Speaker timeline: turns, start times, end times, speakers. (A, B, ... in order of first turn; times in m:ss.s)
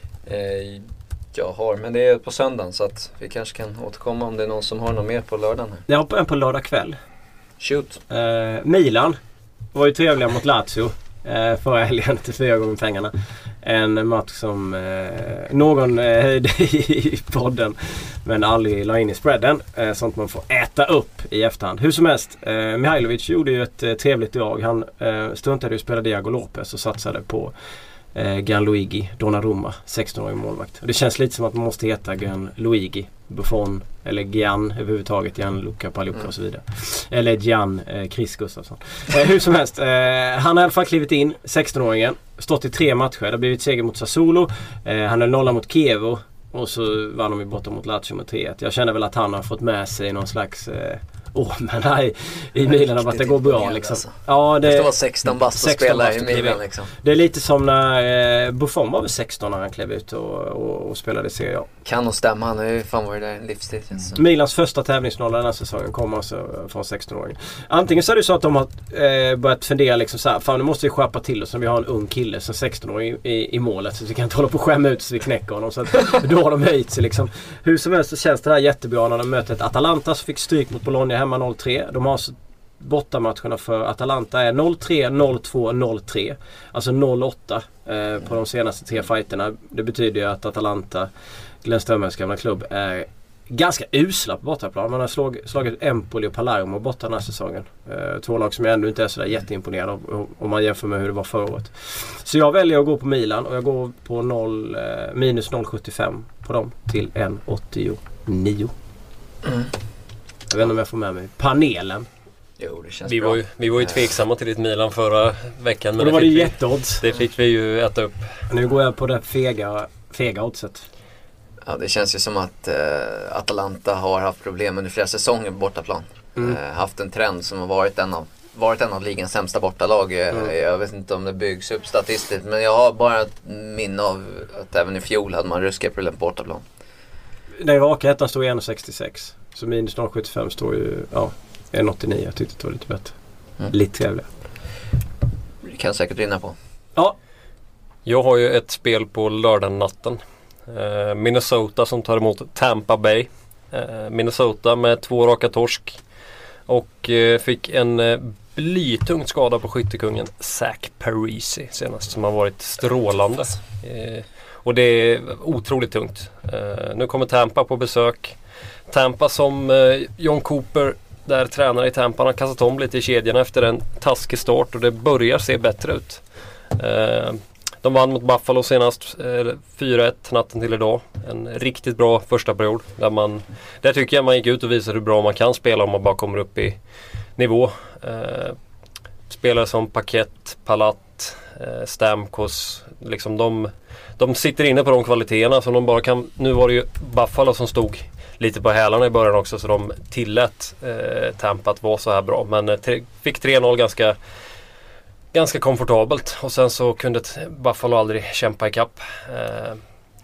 0:00.2-0:05.8 A
0:05.9-0:07.0 B
0:07.6-0:08.0 A
0:08.1-0:09.2 B
0:09.7-0:27.5 B
0:28.1-1:01.7 B
0:52.6-0:56.9 A
1:01.8-1:04.2 A
1:04.2-1:31.1 B
1:31.6-1:48.7 B
1:49.4-1:49.7 A
1:50.5-1:52.1 B
1:52.6-1:54.0 A
1:53.0-1:58.4 C
1:56.0-1:57.0 B
1:58.5-2:00.8 B
2:01.6-2:16.6 A
2:17.6-2:23.2 B
2:23.7-2:24.3 B
2:25.6-2:26.5 A
2:28.0-2:36.0 C
2:36.7-2:48.4 C
2:48.9-3:06.8 C
3:07.4-3:08.6 C
3:09.3-3:24.2 C
3:25.3-3:29.8 C